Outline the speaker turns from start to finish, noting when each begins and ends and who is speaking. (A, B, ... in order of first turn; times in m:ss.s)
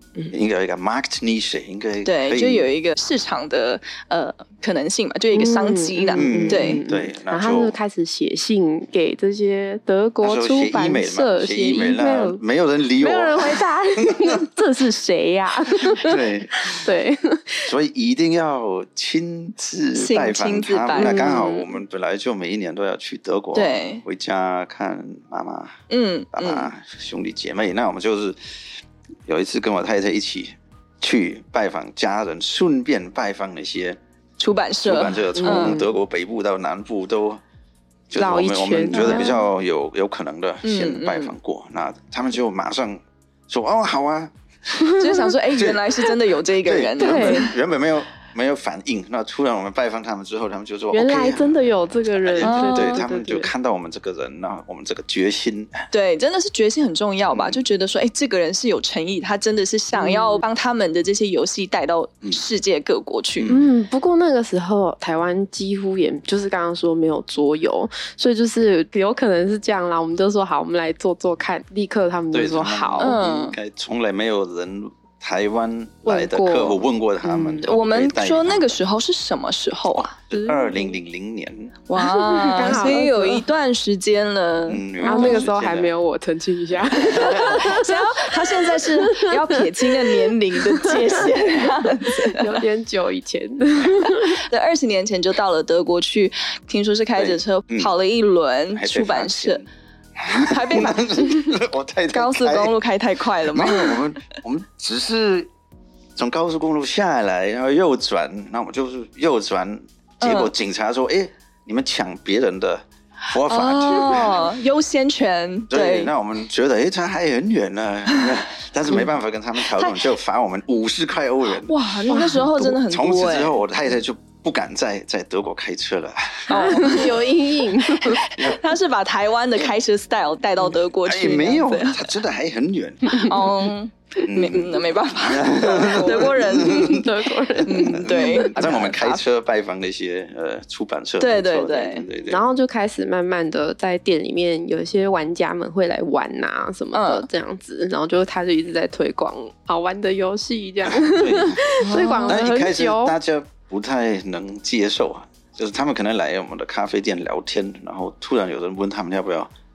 0:00.3-0:02.7 A
0:02.0-0:06.8 B
0:05.3-0:12.4 C
0:06.2-0:07.8 A
0:10.2-0:14.4 A
0:13.0-0:17.7 C
0:15.8-0:16.9 A
0:17.7-0:25.8 A
0:20.0-0:21.4 B
0:21.0-0:21.8 C
0:23.6-0:24.0 B
0:25.9-0:26.7 B
0:26.3-0:28.4 A
0:29.3-0:34.0 A
0:34.4-0:35.8 B
0:34.8-0:37.4 A
0:35.4-0:35.9 C
0:38.1-0:46.0 A
0:38.2-0:39.3 C
0:38.9-0:39.4 B
0:40.6-0:41.4 B
0:44.8-0:45.3 C
0:45.0-0:47.5 B
0:46.6-0:51.6 A
0:47.0-0:47.5 C
0:50.9-0:53.5 C
0:52.2-0:55.9 A
0:52.4-0:53.0 B
0:55.9-1:03.6 B
0:57.3-0:57.6 A
1:00.0-1:00.4 C
1:03.4-1:03.7 A
1:03.5-1:13.1 C
1:12.3-1:18.8 A
1:13.0-1:13.6 B
1:16.0-1:16.8 C
1:17.3-1:20.1 B
1:17.3-1:17.6 C
1:19.9-1:21.8 A
1:20.3-1:21.0 C
1:21.9-1:25.5 B
1:22.0-1:23.4 C
1:24.7-1:25.9 A
1:25.0-1:30.2 C
1:26.9-1:27.8 A
1:27.1-1:32.6 B
1:30.7-1:34.4 C
1:34.5-1:39.6 B
1:37.2-1:37.9 A
1:38.7-1:39.7 A
1:40.2-1:42.8 A
1:40.3-1:41.3 B
1:42.1-1:44.0 B
1:43.4-1:45.5 A
1:46.2-1:54.5 A
1:50.2-1:50.5 B
1:53.5-1:56.1 B
1:55.7-2:07.1 A
1:58.9-2:00.1 B
2:01.6-2:03.6 B
2:02.1-2:02.5 C
2:06.5-2:07.3 B
2:06.5-2:08.2 C
2:07.9-2:12.1 B
2:11.0-2:13.5 A
2:13.1-2:17.0 B
2:14.2-2:17.1 A
2:15.6-2:18.5 C
2:17.6-2:22.4 A
2:17.6-2:19.2 B
2:21.2-2:22.1 B
2:22.3-2:33.2 C
2:26.9-2:27.3 B
2:30.8-2:39.5 A
2:31.8-2:32.4 B